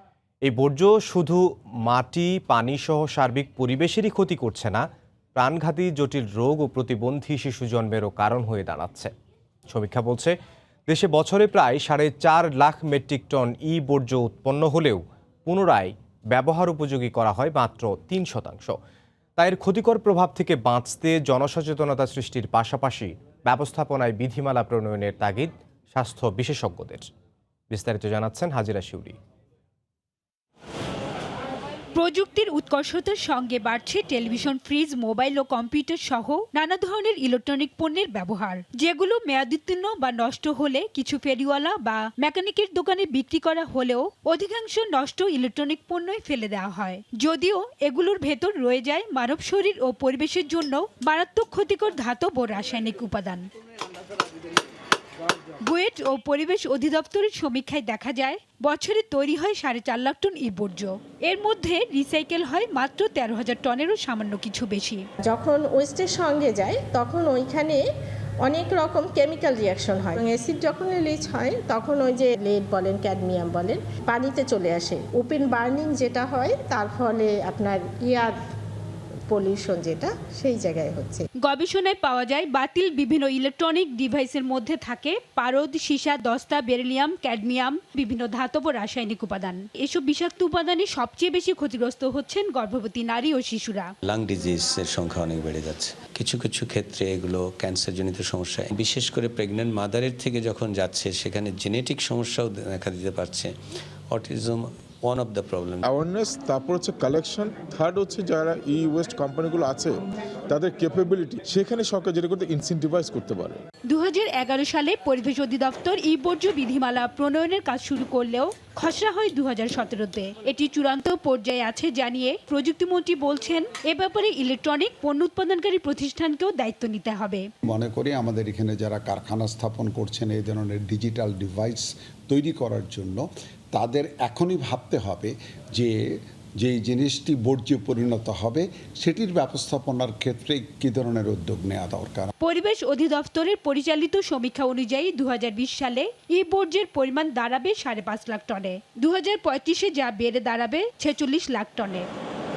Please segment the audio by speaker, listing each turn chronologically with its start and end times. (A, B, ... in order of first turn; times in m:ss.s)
0:00.4-0:09.1 A
0:09.7-0:10.4 A
0:10.9-0:18.8 A
0:19.4-0:27.1 A
0:27.7-0:29.2 A
0:32.0-0:53.5 B
0:55.7-1:05.0 B
1:05.2-1:07.8 C
1:08.4-1:18.4 C
1:19.3-1:21.2 C
1:21.4-1:33.9 B
1:34.0-1:43.5 D
1:44.1-1:45.9 D
1:45.8-1:53.6 E
1:53.9-2:07.5 B
2:07.6-2:22.3 F
2:22.4-2:32.1 B